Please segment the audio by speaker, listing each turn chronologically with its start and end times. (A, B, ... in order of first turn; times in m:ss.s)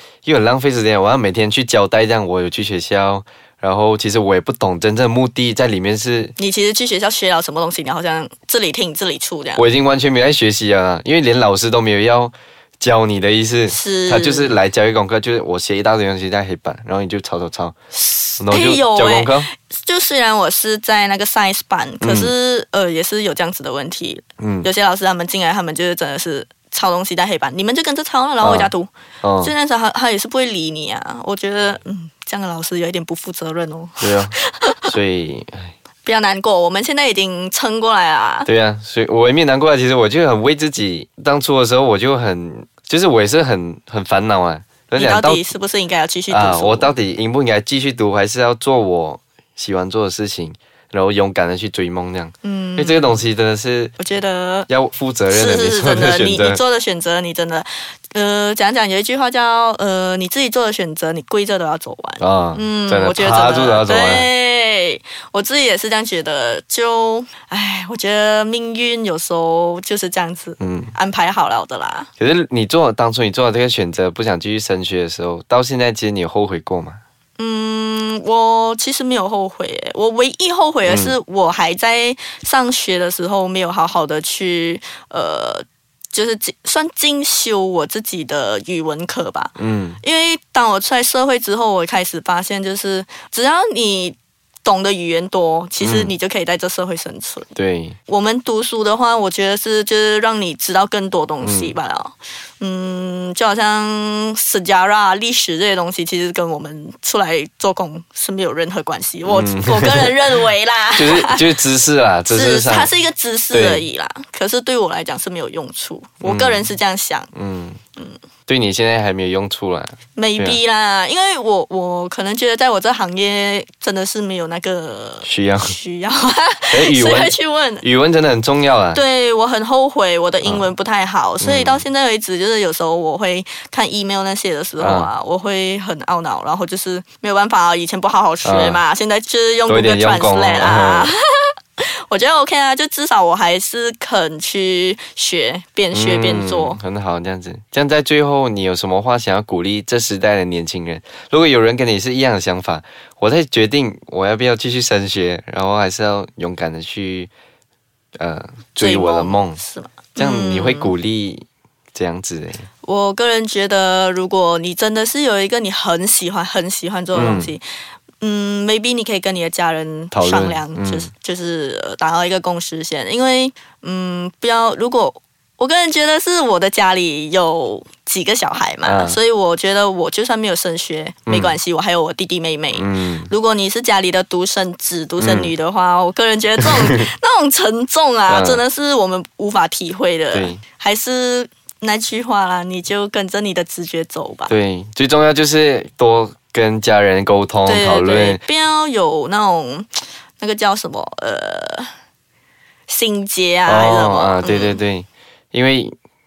0:00.2-0:06.4 A
0:06.4-0:09.7 B
0:09.6-0:17.7 A
0:13.7-0:14.6 B
0:17.9-0:28.9 B
0:18.4-0:19.5 A
0:22.0-0:22.3 A
0:24.4-0:24.7 A
0:28.4-0:28.7 A
0:29.2-0:29.5 A
0:29.4-0:34.9 B
0:34.0-0:34.3 A
0:34.9-0:35.7 A
0:36.0-0:38.5 B
0:38.5-0:45.5 A
0:45.0-0:46.9 B
0:46.3-0:54.0 A
0:52.4-0:53.2 B
0:54.0-0:54.7 B
0:54.7-0:56.6 A
0:55.3-1:12.1 B
1:02.2-1:04.3 A
1:10.6-1:10.9 A
1:12.2-1:17.0 A
1:17.4-1:37.5 B
1:20.8-1:21.1 A
1:29.6-1:30.0 A
1:35.8-1:36.1 A
1:37.6-1:38.0 A
1:38.1-1:51.4 B
1:41.4-1:41.7 A
1:49.3-1:50.2 A
1:51.0-1:52.9 A
1:52.3-1:57.3 B
1:53.5-1:53.8 A
1:56.2-1:56.7 A
1:57.4-1:57.8 A
1:58.5-2:00.6 A
2:00.2-2:07.8 B
2:05.2-2:05.8 A
2:06.7-2:09.0 A
2:08.9-2:26.8 B
2:11.4-2:11.8 A
2:14.8-2:15.1 A
2:18.4-2:18.8 A
2:19.7-2:21.1 A
2:25.9-2:37.3 A
2:38.2-2:39.6 A
2:38.8-2:40.9 B
2:40.2-2:42.6 A
2:42.8-2:47.6 B
2:47.1-2:47.5 A
2:48.2-3:14.5 B
2:50.1-2:51.1 A
2:58.8-2:59.2 A
3:01.3-3:01.6 A
3:02.8-3:03.3 A
3:05.2-3:05.5 A
3:08.3-3:08.6 A
3:10.3-3:10.6 A
3:14.5-3:18.4 A
3:17.7-3:19.9 B
3:20.4-3:21.9 B
3:22.9-3:24.8 B
3:23.7-3:25.9 A